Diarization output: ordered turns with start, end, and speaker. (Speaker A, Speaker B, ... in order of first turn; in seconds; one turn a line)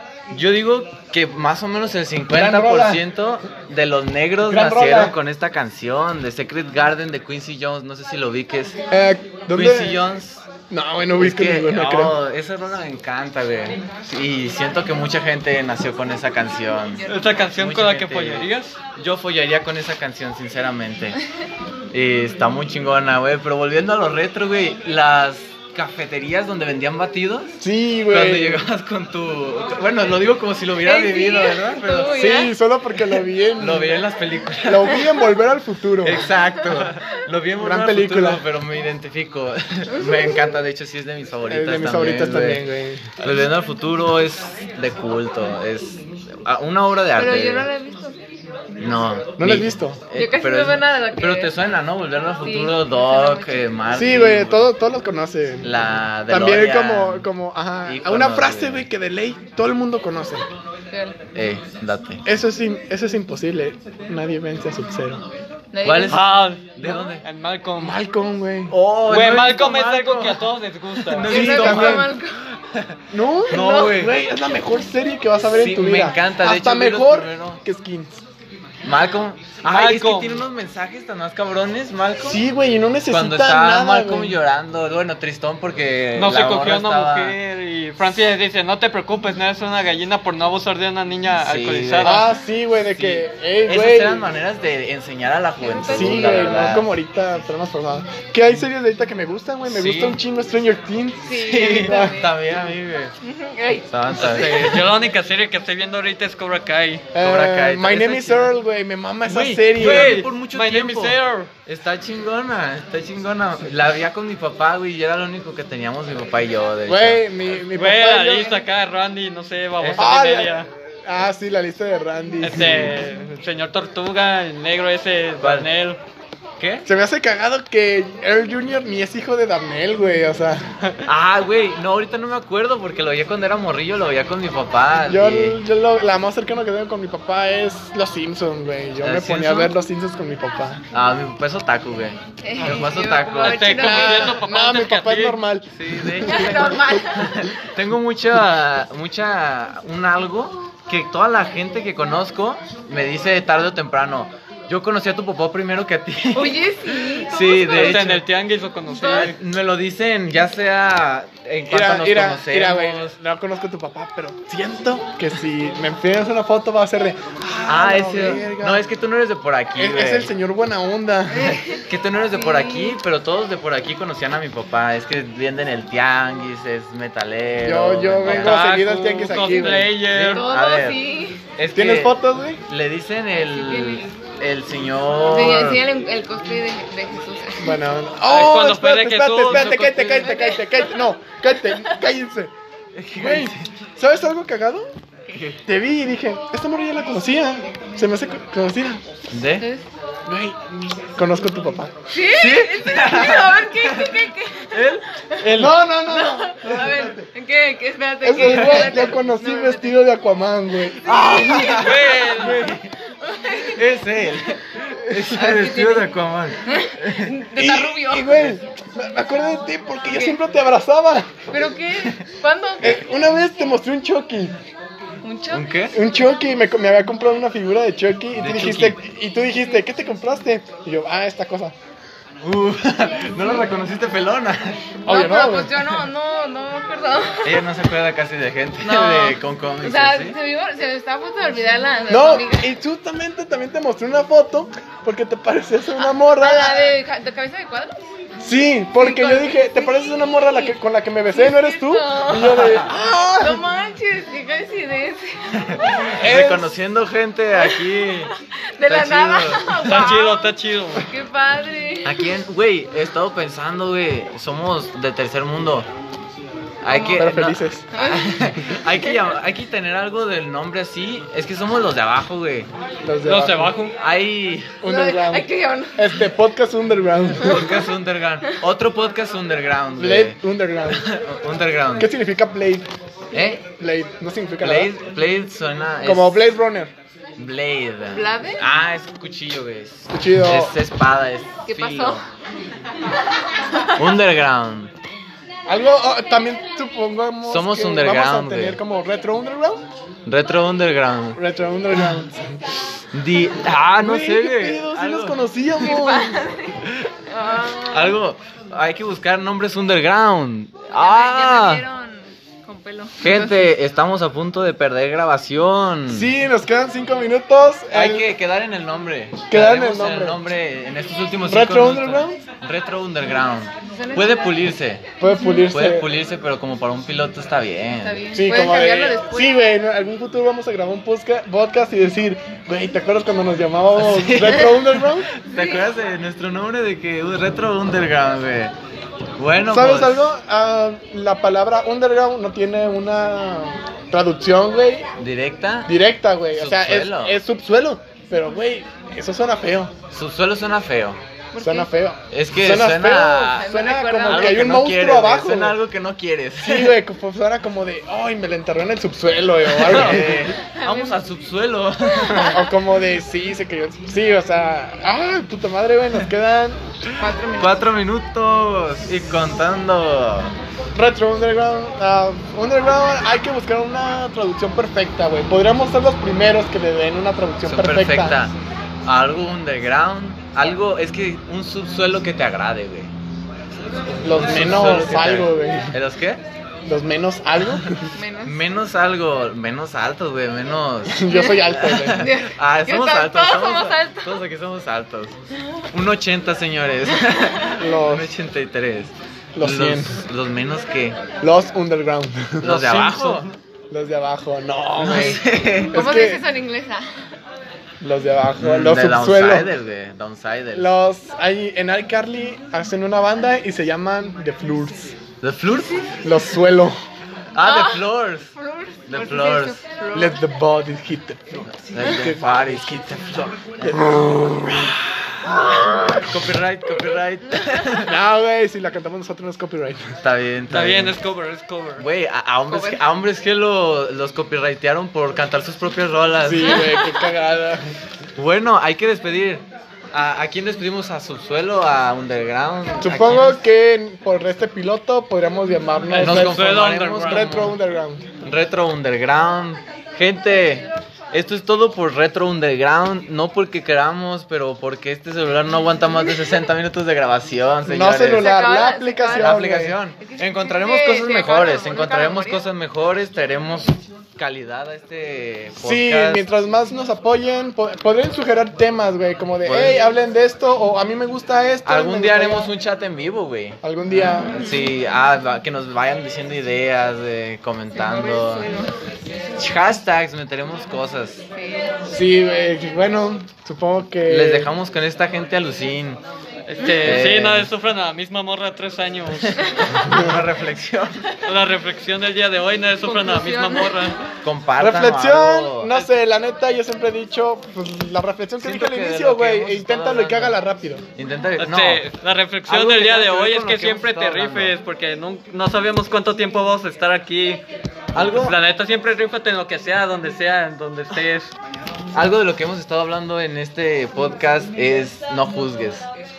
Speaker A: 0.3-8.8
Speaker B: 2.3-3.0
Speaker B: 4.5-5.2
Speaker B: 8.9-10.0
Speaker A: 9.5-10.5
Speaker B: 10.7-12.2
Speaker A: 11.2-21.2
Speaker C: 16.9-17.5
Speaker D: 17.1-18.8
Speaker A: 21.9-27.6
Speaker B: 27.6-28.7
Speaker A: 28.1-32.2
Speaker C: 30.8-32.5
Speaker B: 32.1-34.0
Speaker A: 33.5-35.2
Speaker B: 34.6-36.3
Speaker A: 36.0-42.6
Speaker B: 37.6-38.4
Speaker B: 41.5-43.1
Speaker A: 43.2-47.7
Speaker C: 47.1-48.2
Speaker A: 48.8-54.7
Speaker B: 49.4-50.0
Speaker C: 50.1-51.5
Speaker C: 52.4-53.6
Speaker B: 53.9-55.7
Speaker A: 55.6-57.3
Speaker B: 56.3-60.5
Speaker A: 57.8-58.9
Speaker C: 60.9-61.2
Speaker A: 61.3-62.2
Speaker B: 62.2-65.2
Speaker C: 65.7-66.9
Speaker A: 65.8-67.2
Speaker D: 66.1-68.0
Speaker B: 67.8-68.7
Speaker A: 68.7-74.1
Speaker D: 69.1-71.3
Speaker B: 71.3-72.1
Speaker C: 71.3-72.3
Speaker B: 73.1-78.2
Speaker C: 73.5-74.0
Speaker A: 75.5-77.6
Speaker A: 78.8-82.4
Speaker D: 79.6-80.4
Speaker B: 82.2-84.4
Speaker A: 83.1-87.4
Speaker D: 86.2-92.3
Speaker A: 91.4-92.2
Speaker B: 92.0-94.2
Speaker A: 92.9-96.9
Speaker C: 95.6-96.7
Speaker B: 95.8-102.2
Speaker A: 99.6-100.2
Speaker C: 101.2-102.3
Speaker A: 101.4-103.1
Speaker C: 103.2-103.9
Speaker A: 103.9-104.8
Speaker D: 104.2-107.0
Speaker B: 107.1-110.2
Speaker A: 107.2-108.5
Speaker D: 109.3-111.5
Speaker A: 109.7-117.5
Speaker B: 116.8-118.6
Speaker D: 117.7-120.7
Speaker A: 119.8-120.1
Speaker B: 120.0-123.0
Speaker D: 122.4-126.0
Speaker A: 125.4-125.7
Speaker A: 126.6-126.9
Speaker B: 126.8-130.7
Speaker A: 131.0-135.6
Speaker B: 135.1-140.8
Speaker A: 139.0-139.7
Speaker A: 140.9-143.8
Speaker C: 142.4-144.4
Speaker D: 143.4-145.4
Speaker B: 143.8-146.8
Speaker A: 145.7-158.2
Speaker C: 146.2-147.5
Speaker C: 156.3-158.1
Speaker D: 157.6-159.3
Speaker C: 158.9-159.3
Speaker A: 159.0-163.2
Speaker B: 161.7-168.8
Speaker A: 167.7-170.3
Speaker B: 169.8-171.8
Speaker C: 171.4-173.0
Speaker A: 171.8-185.8
Speaker B: 177.6-179.9
Speaker D: 178.2-180.5
Speaker C: 180.2-181.4
Speaker B: 181.7-182.6
Speaker C: 183.5-184.1
Speaker C: 185.2-187.8
Speaker B: 187.6-192.5
Speaker D: 188.3-189.8
Speaker A: 189.5-190.4
Speaker C: 190.2-191.0
Speaker A: 192.9-193.7
Speaker B: 193.1-194.9
Speaker A: 195.3-195.6
Speaker B: 195.6-199.0
Speaker A: 199.3-199.7
Speaker C: 199.6-199.8
Speaker B: 200.3-201.9
Speaker C: 202.1-205.5
Speaker A: 202.3-205.0
Speaker D: 205.4-205.8
Speaker B: 205.5-207.3
Speaker C: 206.1-210.0
Speaker B: 208.2-211.8
Speaker D: 208.4-208.8
Speaker C: 210.9-214.4
Speaker A: 211.1-212.9
Speaker D: 211.7-212.7
Speaker A: 213.5-217.3
Speaker C: 215.2-216.1
Speaker C: 216.6-218.5
Speaker B: 217.5-221.5
Speaker C: 220.1-220.4
Speaker C: 221.5-223.0
Speaker B: 222.8-224.6
Speaker C: 225.2-225.7
Speaker A: 225.5-226.0
Speaker B: 225.9-231.7
Speaker A: 228.4-229.0
Speaker A: 232.4-234.9
Speaker B: 235.0-235.8
Speaker C: 235.0-237.7
Speaker A: 237.4-240.3
Speaker C: 238.8-242.7
Speaker B: 242.1-246.9
Speaker C: 246.3-248.1
Speaker B: 248.4-253.7
Speaker C: 248.9-256.2
Speaker A: 255.6-258.3
Speaker B: 256.2-256.7
Speaker C: 257.5-262.3
Speaker A: 258.9-260.2
Speaker D: 259.8-261.1
Speaker A: 262.0-265.9
Speaker A: 266.8-272.7
Speaker C: 266.9-269.2
Speaker B: 267.1-267.8
Speaker B: 273.0-273.8
Speaker D: 273.2-273.9
Speaker A: 273.9-274.8
Speaker B: 274.8-277.8
Speaker C: 274.8-276.3
Speaker A: 277.3-282.1
Speaker B: 280.0-281.1
Speaker B: 282.0-282.9
Speaker A: 283.3-283.6
Speaker C: 283.3-283.6
Speaker B: 283.7-284.9
Speaker A: 284.6-286.5
Speaker B: 286.0-286.9
Speaker A: 287.4-292.2
Speaker C: 288.1-288.6
Speaker B: 290.1-290.8
Speaker C: 291.6-292.2
Speaker C: 293.6-294.0
Speaker A: 293.9-294.9
Speaker B: 295.7-299.8
Speaker A: 297.4-298.8
Speaker A: 300.2-301.4
Speaker B: 301.3-302.6
Speaker A: 303.1-305.4
Speaker B: 304.0-306.4
Speaker C: 305.8-308.2
Speaker A: 307.8-311.8
Speaker C: 310.9-313.7
Speaker A: 313.2-316.3
Speaker B: 316.1-318.3
Speaker A: 317.9-325.1
Speaker B: 319.5-320.5
Speaker B: 321.5-322.4
Speaker C: 323.9-324.6
Speaker B: 325.2-326.1
Speaker C: 325.2-325.7
Speaker A: 325.7-328.2
Speaker C: 328.0-329.6
Speaker B: 328.3-335.3
Speaker A: 333.9-338.7
Speaker C: 335.5-335.8
Speaker A: 339.4-340.3
Speaker B: 339.6-345.1
Speaker A: 345.2-345.9
Speaker B: 345.9-349.9
Speaker A: 346.5-347.4
Speaker A: 350.1-351.2
Speaker C: 351.5-351.9
Speaker B: 351.6-355.8
Speaker A: 352.3-353.7
Speaker C: 353.5-354.7
Speaker A: 354.2-356.9
Speaker B: 356.6-360.5
Speaker A: 359.7-362.6
Speaker C: 360.1-361.2
Speaker C: 362.1-362.7
Speaker B: 362.3-366.8
Speaker C: 367.2-367.8
Speaker A: 367.5-370.6
Speaker B: 370.9-378.4
Speaker A: 377.6-383.1
Speaker B: 384.2-386.0
Speaker A: 384.3-386.4
Speaker B: 386.8-388.1
Speaker C: 388.1-388.6
Speaker A: 388.4-395.4
Speaker B: 391.1-392.3
Speaker C: 391.3-394.4
Speaker A: 395.9-401.2
Speaker C: 397.3-397.6
Speaker B: 397.7-398.3
Speaker B: 399.6-400.2
Speaker B: 401.4-402.8
Speaker A: 402.6-403.5
Speaker D: 402.6-403.5
Speaker B: 403.9-406.4
Speaker A: 405.0-406.0
Speaker C: 405.9-407.1
Speaker B: 408.0-409.7
Speaker A: 408.6-410.9
Speaker B: 410.7-415.2
Speaker A: 415.4-416.2
Speaker B: 416.2-417.0
Speaker A: 417.5-418.5
Speaker C: 417.6-420.4
Speaker A: 419.1-419.8
Speaker B: 420.1-426.3
Speaker A: 421.7-424.1
Speaker A: 425.5-428.1
Speaker B: 428.0-430.2
Speaker A: 430.2-431.2
Speaker D: 430.7-432.0
Speaker A: 432.0-436.9
Speaker C: 432.7-433.0
Speaker B: 436.4-437.9
Speaker C: 436.7-437.1
Speaker A: 438.4-443.6
Speaker B: 443.0-446.7
Speaker D: 446.1-447.7
Speaker A: 446.2-447.7
Speaker B: 447.2-448.3
Speaker A: 448.4-458.5
Speaker B: 457.8-460.0
Speaker C: 458.3-459.6
Speaker A: 459.4-466.4
Speaker C: 460.2-462.6
Speaker B: 465.8-472.7
Speaker A: 469.6-470.1
Speaker A: 471.8-478.7
Speaker B: 473.8-474.7
Speaker C: 474.6-474.9
Speaker C: 477.9-478.9
Speaker A: 479.6-481.4
Speaker C: 481.5-482.0
Speaker B: 482.1-484.7
Speaker A: 484.2-486.2
Speaker D: 486.6-489.8
Speaker C: 486.8-487.1
Speaker A: 487.0-487.7
Speaker A: 489.4-491.3
Speaker B: 490.1-490.3
Speaker D: 491.4-494.2
Speaker C: 493.0-494.1
Speaker A: 494.4-495.9
Speaker B: 494.8-501.0
Speaker A: 498.6-500.6
Speaker A: 501.1-502.1
Speaker D: 501.6-507.6
Speaker A: 502.7-504.8
Speaker A: 508.1-508.6
Speaker D: 508.1-511.5
Speaker A: 512.1-516.1